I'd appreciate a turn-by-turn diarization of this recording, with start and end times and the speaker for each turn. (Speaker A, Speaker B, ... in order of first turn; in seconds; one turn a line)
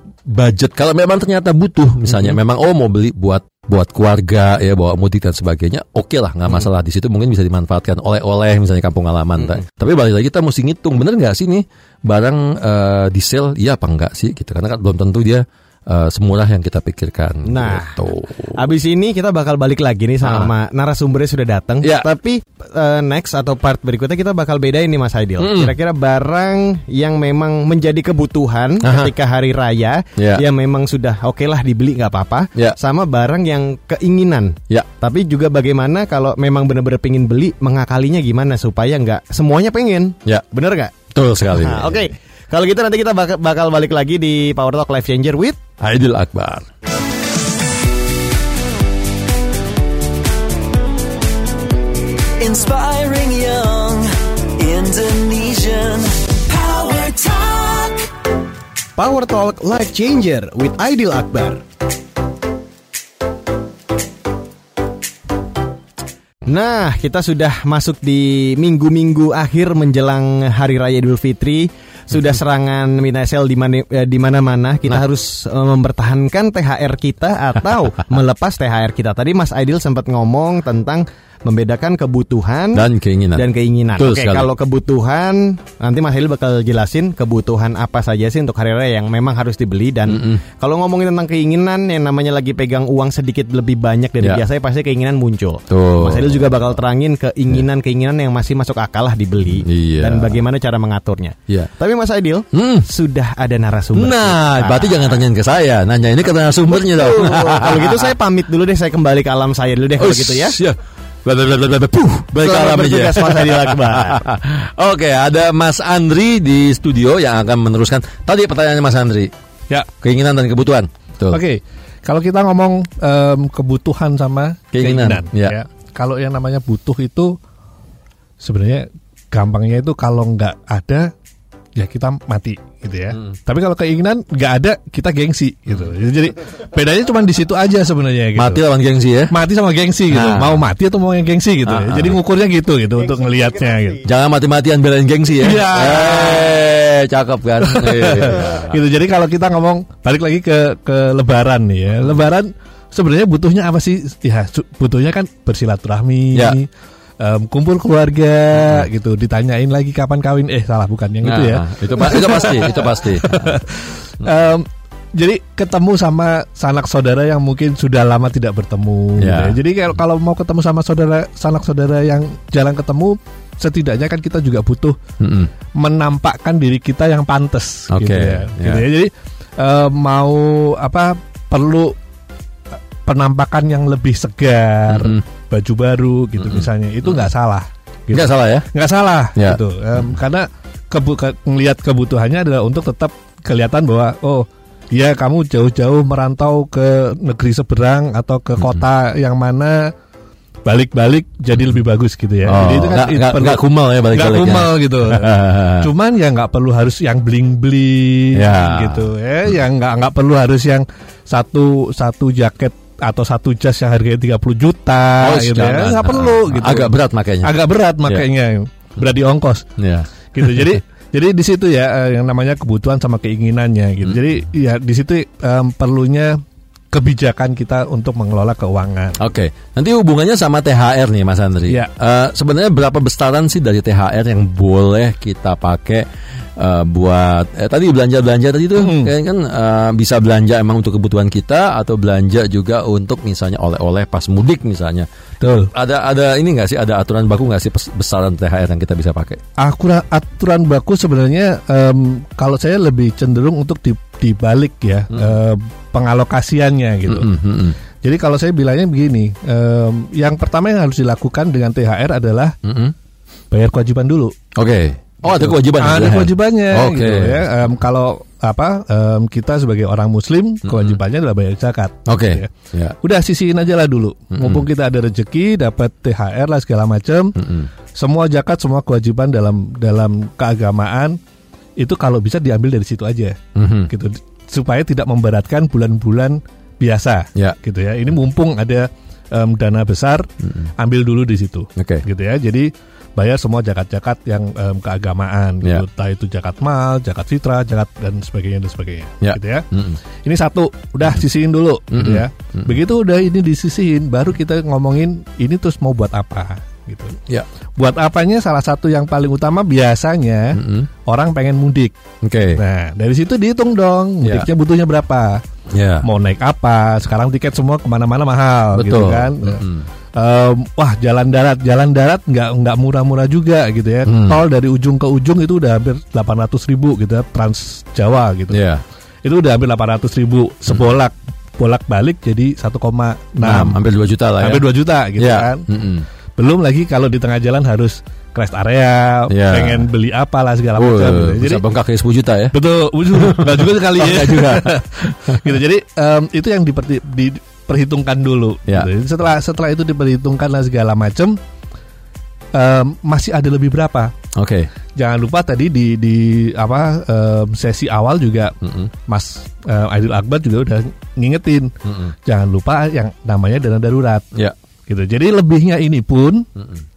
Speaker A: 0.3-18.7
Speaker B: 17.4-41.0
Speaker A: 20.2-20.5
Speaker A: 21.8-22.1
Speaker A: 25.4-25.8
Speaker A: 28.8-29.1
Speaker A: 30.2-30.4
Speaker A: 41.1-42.1
Speaker B: 41.5-45.6
Speaker A: 45.8-46.7
Speaker C: 52.4-58.1
Speaker B: 59.0-61.6
Speaker B: 66.5-105.2
Speaker A: 82.7-84.5
Speaker A: 90.1-90.4
Speaker A: 95.7-96.5
Speaker A: 99.6-100.4
Speaker A: 102.5-102.9
Speaker A: 104.0-108.1
Speaker B: 106.7-110.6
Speaker A: 110.0-119.3
Speaker B: 112.3-114.2
Speaker A: 120.0-121.4
Speaker D: 121.3-127.3
Speaker A: 124.7-125.6
Speaker D: 128.4-131.1
Speaker D: 131.8-138.6
Speaker A: 138.3-139.3
Speaker D: 139.3-144.0
Speaker A: 140.1-140.6
Speaker A: 141.7-142.2
Speaker A: 144.0-148.8
Speaker D: 145.4-146.6
Speaker D: 147.6-156.7
Speaker D: 157.2-175.0
Speaker A: 158.5-158.9
Speaker A: 161.2-163.6
Speaker A: 169.2-169.6
Speaker A: 175.2-175.5
Speaker D: 175.8-181.9
Speaker A: 177.9-178.8
Speaker D: 183.1-199.9
Speaker A: 184.9-185.2
Speaker A: 186.4-187.3
Speaker A: 188.1-188.7
Speaker A: 189.3-190.1
Speaker A: 198.6-198.8
Speaker D: 200.7-219.7
Speaker A: 202.4-205.9
Speaker A: 208.3-209.1
Speaker A: 215.2-218.3
Speaker A: 219.8-220.8
Speaker D: 220.3-226.4
Speaker A: 224.0-224.3
Speaker D: 226.9-229.2
Speaker A: 229.2-236.1
Speaker A: 236.6-249.4
Speaker D: 238.8-239.1
Speaker D: 245.4-245.7
Speaker D: 249.6-257.4
Speaker A: 255.1-255.4
Speaker A: 257.1-257.8
Speaker D: 258.0-262.6
Speaker A: 262.6-262.9
Speaker D: 263.5-264.4
Speaker A: 264.6-267.5
Speaker D: 265.2-277.4
Speaker A: 270.6-271.0
Speaker A: 272.1-273.0
Speaker A: 274.3-274.7
Speaker A: 277.4-277.7
Speaker D: 277.9-281.2
Speaker D: 281.8-283.4
Speaker A: 283.6-283.9
Speaker D: 283.9-299.7
Speaker A: 290.4-290.7
Speaker A: 291.8-292.0
Speaker A: 299.2-300.0
Speaker D: 300.2-307.2
Speaker A: 301.9-302.8
Speaker D: 307.8-311.9
Speaker A: 310.5-310.9
Speaker A: 312.2-312.6
Speaker D: 312.6-315.4
Speaker A: 315.7-316.1
Speaker D: 316.0-319.6
Speaker A: 318.7-319.9
Speaker D: 320.2-328.6
Speaker A: 324.1-324.4
Speaker A: 328.5-328.8
Speaker D: 329.2-333.8
Speaker A: 333.4-336.1
Speaker D: 334.4-335.6
Speaker D: 336.4-341.6
Speaker A: 339.3-339.9
Speaker A: 340.8-342.6
Speaker D: 342.5-351.4
Speaker A: 343.1-345.6
Speaker D: 352.5-354.1
Speaker A: 354.4-354.7
Speaker D: 355.0-358.6
Speaker A: 358.6-358.9
Speaker D: 359.1-361.7
Speaker A: 361.9-362.1
Speaker D: 362.2-364.3
Speaker D: 364.9-366.5
Speaker A: 366.6-366.8